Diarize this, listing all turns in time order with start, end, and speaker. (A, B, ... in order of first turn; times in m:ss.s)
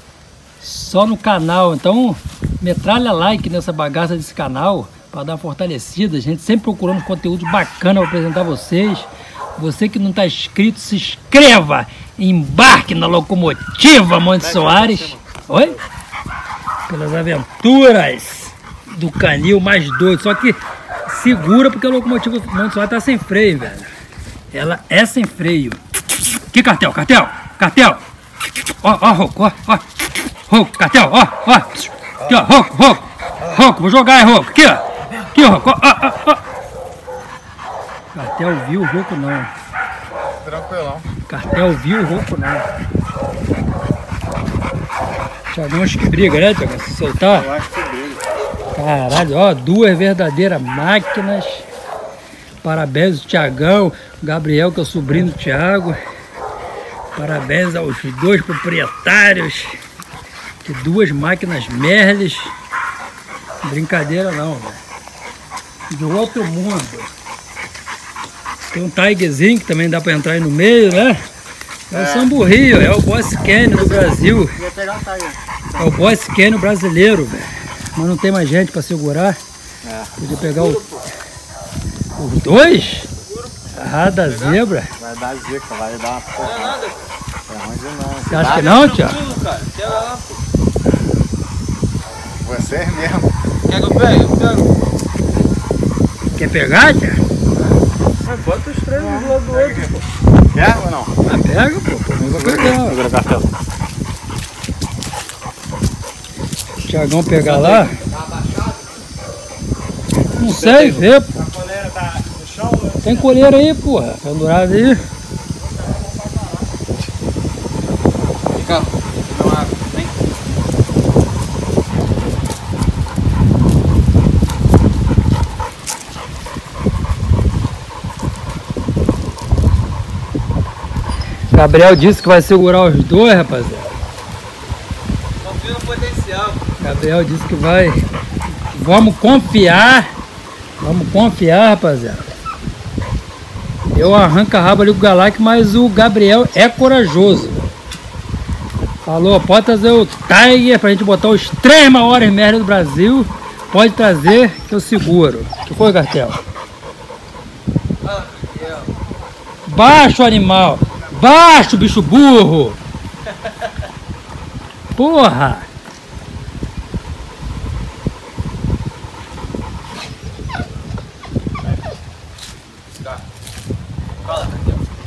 0:00.6-0:15.8 A
0:14.4-0:15.8 B
0:16.9-0:23.9 A
0:24.5-0:25.8 A
0:26.5-0:28.0 A
0:28.8-0:29.8 A
0:30.5-0:36.4 A
0:32.2-0:32.5 B
0:33.4-0:33.6 B
0:38.1-0:39.5 A
0:40.4-0:41.1 B
0:41.3-0:42.6 A
0:45.5-0:47.6 A
0:47.3-0:48.2 B
0:48.8-0:51.6 A
0:52.6-0:56.0 A
0:57.1-0:59.8 A
1:00.6-1:02.5 A
1:03.6-1:04.8 A
1:05.9-1:07.1 A
1:08.7-1:11.2 A
1:11.9-1:14.6 A
1:11.9-1:12.3 B
1:13.7-1:15.9 B
1:15.8-1:19.4 A
1:19.8-1:20.1 B
1:20.2-1:20.8 A
1:20.4-1:21.1 C
1:22.2-1:23.1 A
1:23.2-1:24.6 C
1:23.8-1:24.9 A
1:25.0-1:26.8 B
1:26.4-1:27.1 C
1:27.5-1:28.8 B
1:28.3-1:29.2 A
1:28.4-1:30.4 C
1:32.4-1:33.3 B
1:33.7-1:34.9 C
1:36.3-1:37.2 A
1:38.2-1:40.0 C
1:38.9-1:39.9 B
1:40.5-1:41.1 B
1:41.2-1:43.0 A
1:42.2-1:43.5 B
1:46.8-1:48.0 A
1:47.5-1:47.9 C
1:48.0-1:49.0 B
1:50.3-1:51.3 A
1:50.5-1:51.0 C
1:51.3-1:53.3 B
1:53.0-1:55.0 A
1:55.6-1:56.6 B
1:58.6-2:00.1 C
2:11.5-2:13.9 A
2:15.4-2:16.6 C
2:16.8-2:18.0 A
2:18.7-2:20.1 A
2:20.8-2:22.3 A
2:23.9-2:27.6 A
2:29.1-2:36.4 A
2:38.0-2:38.9 C
2:39.6-2:42.8 A
2:45.0-2:45.7 A
2:52.9-2:53.2 C
2:54.2-2:54.8 C